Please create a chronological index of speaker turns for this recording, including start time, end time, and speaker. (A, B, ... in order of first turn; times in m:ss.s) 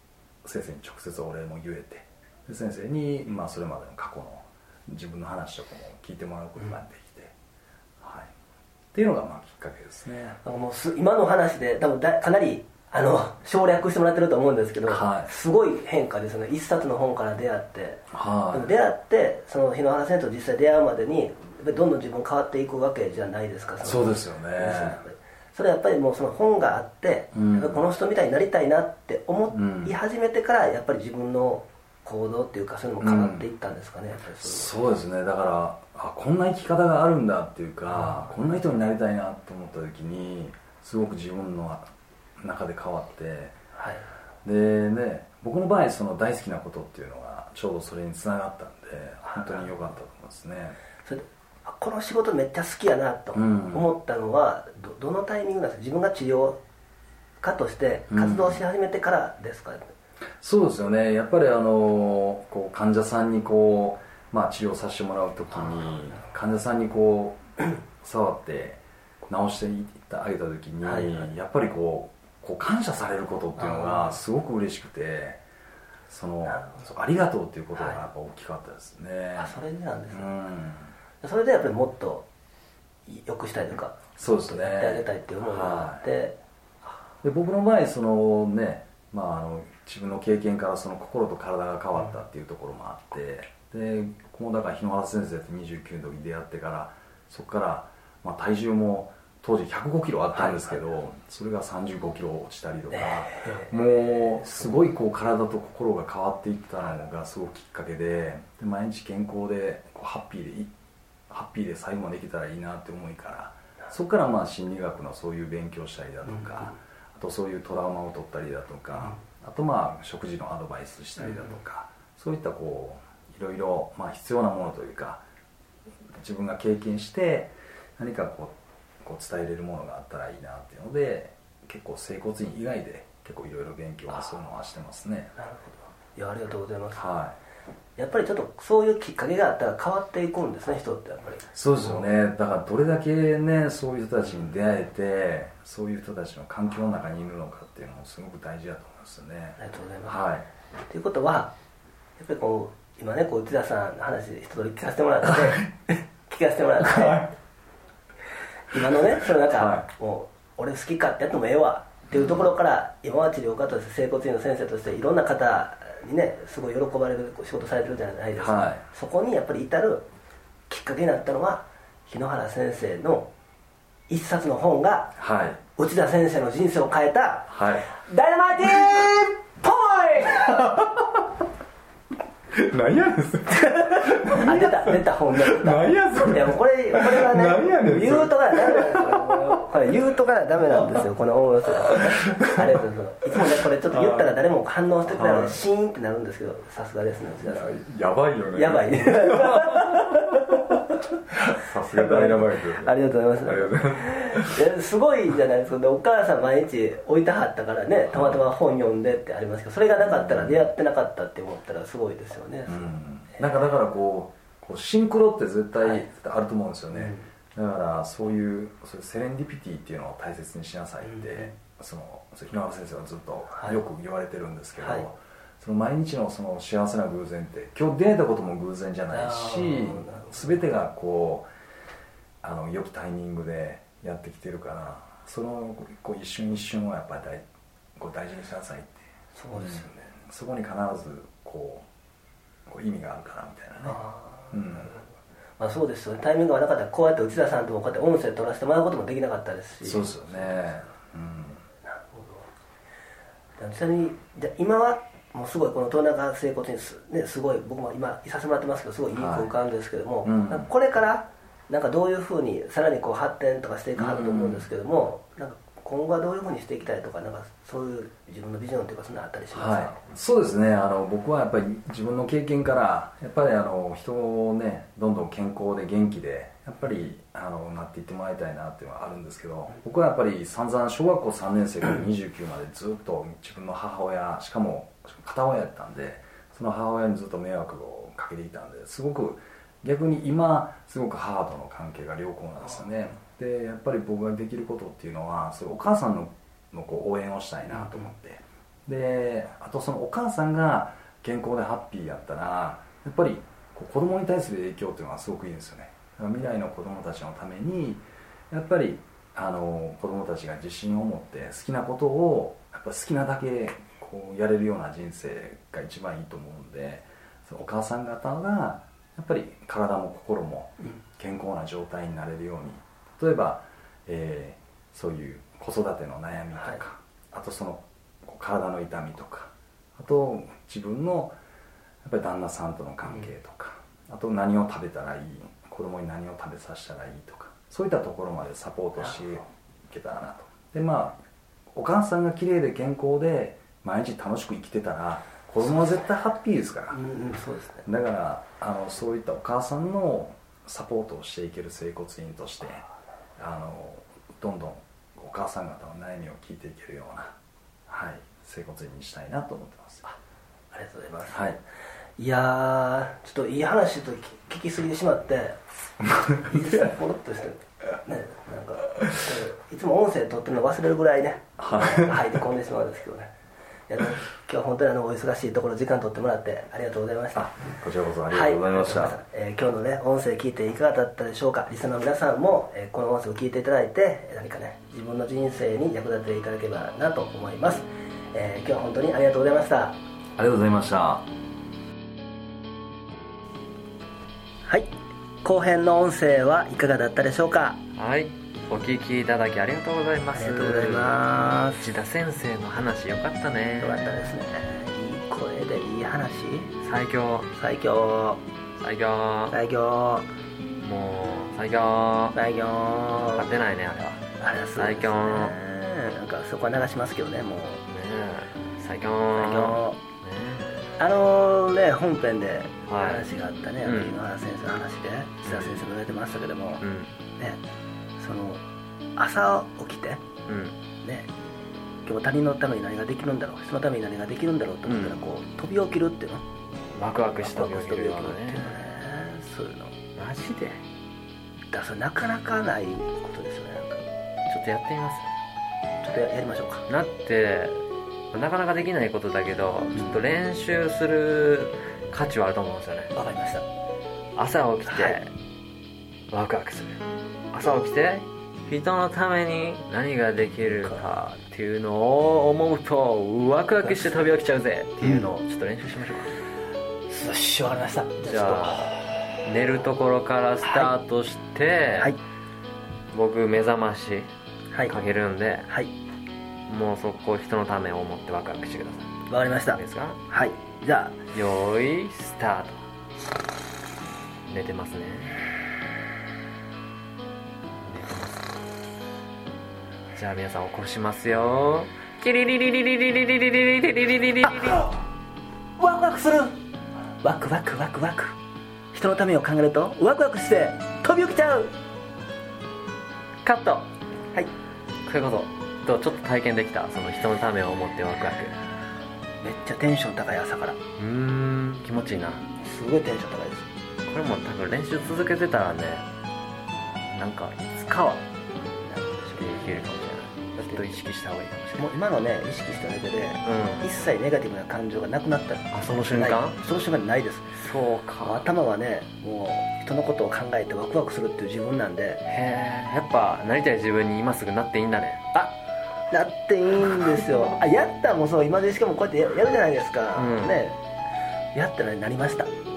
0:00.4-0:07.3 A
0:08.0-0:08.3 A
0:08.9-0:10.4 A
0:10.4-0:34.7 B
0:14.8-0:15.3 A
0:18.1-0:18.7 A
0:23.8-0:25.0 A
0:27.3-0:27.8 A
0:29.5-0:30.0 A
0:33.0-0:33.5 A
0:34.4-0:41.9 A
0:42.4-0:43.5 A
0:43.7-0:44.1 B
0:44.4-0:50.8 A
0:49.2-0:49.7 B
0:51.0-0:56.6 B
0:53.3-0:53.9 A
0:57.4-0:59.9 B
0:58.1-0:58.6 A
1:00.4-1:07.4 A
1:08.0-1:15.4 A
1:10.8-1:11.3 B
1:13.6-1:14.2 B
1:16.1-1:19.6 A
1:16.5-1:16.8 B
1:19.4-1:20.3 B
1:20.1-1:20.9 A
1:21.2-1:22.2 B
1:23.0-1:26.4 B
1:24.2-1:26.0 A
1:27.2-1:50.7 A
1:40.3-1:40.8 B
1:42.9-1:43.7 B
1:51.3-2:05.2 A
1:56.3-1:56.8 B
2:01.2-2:01.5 B
2:06.2-2:15.3 A
2:15.4-2:17.0 B
2:16.9-2:17.4 A
2:18.0-2:22.0 B
2:21.5-2:30.5 A
2:29.6-2:30.2 B
2:30.9-2:31.5 B
2:32.2-2:37.3 B
2:36.8-2:37.2 A
2:38.7-2:50.1 B
2:39.5-2:39.9 A
2:42.1-2:42.5 A
2:48.4-2:48.8 A
2:50.7-2:53.3 B
2:54.1-2:55.1 B
2:55.2-2:55.6 A
2:55.7-3:00.8 B
2:57.5-2:57.9 A
3:00.6-3:01.2 A
3:02.5-3:09.6 A
3:03.6-3:17.7 B
3:11.8-3:12.5 A
3:13.5-3:14.3 A
3:15.1-3:15.6 A
3:17.4-3:20.8 A
3:18.5-3:20.8 B
3:21.3-3:24.6 A
3:21.9-3:33.5 B
3:28.1-3:28.4 A
3:30.0-3:30.7 A
3:32.7-3:51.5 A
3:35.8-3:36.0 B
3:36.9-3:37.3 B
3:41.0-3:41.5 B
3:43.5-3:43.8 B
3:44.8-3:45.1 B
3:49.1-3:50.6 B
3:52.4-3:57.4 A
3:58.0-4:01.8 A
3:59.3-4:00.0 B
4:02.7-4:04.0 A
4:03.8-4:05.0 B
4:04.5-4:04.9 A
4:05.6-4:10.8 B
4:09.8-4:11.6 A
4:11.8-4:12.5 B
4:13.6-4:30.0 B
4:19.1-4:19.5 A
4:20.2-4:20.7 A
4:24.0-4:24.7 A
4:29.5-5:31.4 A
4:57.7-4:58.1 B
5:32.0-5:41.2 A
5:41.7-5:47.0 A
5:46.9-5:47.8 B
5:47.8-5:52.8 A
5:53.4-5:57.4 A
5:57.9-6:00.1 A
6:00.7-6:01.6 B
6:01.3-6:01.6 A
6:02.2-6:05.6 B
6:06.3-6:13.3 B
6:11.6-6:12.2 A
6:13.9-6:17.6 B
6:17.3-6:19.2 A
6:18.3-6:30.0 B
6:30.4-6:31.3 A
6:35.4-6:37.8 B
6:37.9-6:41.2 C
6:40.3-6:41.9 B
6:41.8-6:44.2 C
6:43.8-6:46.7 B
6:46.8-6:47.5 C
6:47.5-6:48.4 B
6:48.8-6:49.6 C
6:49.5-6:50.3 B
6:50.8-6:52.4 C
6:52.3-6:53.5 B
6:53.3-6:54.2 C
6:54.4-6:57.8 B
6:54.8-6:55.6 C
6:57.9-7:00.7 C
6:59.3-7:00.0 B
7:01.0-7:06.8 B
7:02.9-7:03.3 C
7:03.8-7:04.2 C
7:05.4-7:05.8 C
7:06.8-7:07.1 C
7:08.2-7:08.6 B
7:09.2-7:10.2 B
7:10.5-7:10.8 C
7:11.0-7:11.3 B
7:12.0-7:16.4 B
7:14.8-7:15.2 C
7:16.9-7:18.8 C
7:17.4-7:19.9 B
7:20.2-7:20.8 C
7:21.7-7:24.0 B
7:24.5-7:25.3 C
7:26.0-7:26.9 B
7:26.9-7:33.1 C
7:33.1-7:33.6 B
7:34.4-7:35.3 C
7:34.8-7:35.2 B
7:36.3-7:37.0 C
7:37.5-7:46.3 C
7:43.8-7:44.4 B
7:45.0-7:45.3 B
7:47.1-7:49.4 B
7:48.2-7:48.9 C
7:49.4-7:52.1 C
7:50.6-7:50.9 B
7:53.1-7:54.3 C
7:54.9-7:55.7 C
7:56.7-7:59.1 C
7:59.3-8:01.2 B
7:59.6-8:00.2 C
8:01.3-8:02.8 C
8:04.5-8:05.4 C
8:07.8-8:08.5 C
8:10.1-8:14.9 C
8:14.4-8:15.0 B
8:15.8-8:16.6 B
8:17.2-8:18.4 B
8:18.9-8:21.7 B
8:23.4-8:23.9 C
8:25.0-8:28.6 C
8:29.4-8:30.8 B
8:31.0-8:32.4 C
8:32.6-8:33.7 B
8:34.0-8:36.0 C
8:37.0-8:38.2 C
8:38.8-8:39.9 B
8:39.4-8:41.9 C
8:40.6-8:41.0 B
8:41.8-8:47.5 B
8:43.4-8:43.9 C
8:45.7-8:46.6 C
8:47.5-8:48.4 C
8:48.2-8:52.2 B
8:52.2-8:55.2 C
8:56.1-9:00.8 B
9:00.2-9:00.6 C
9:01.5-9:02.5 B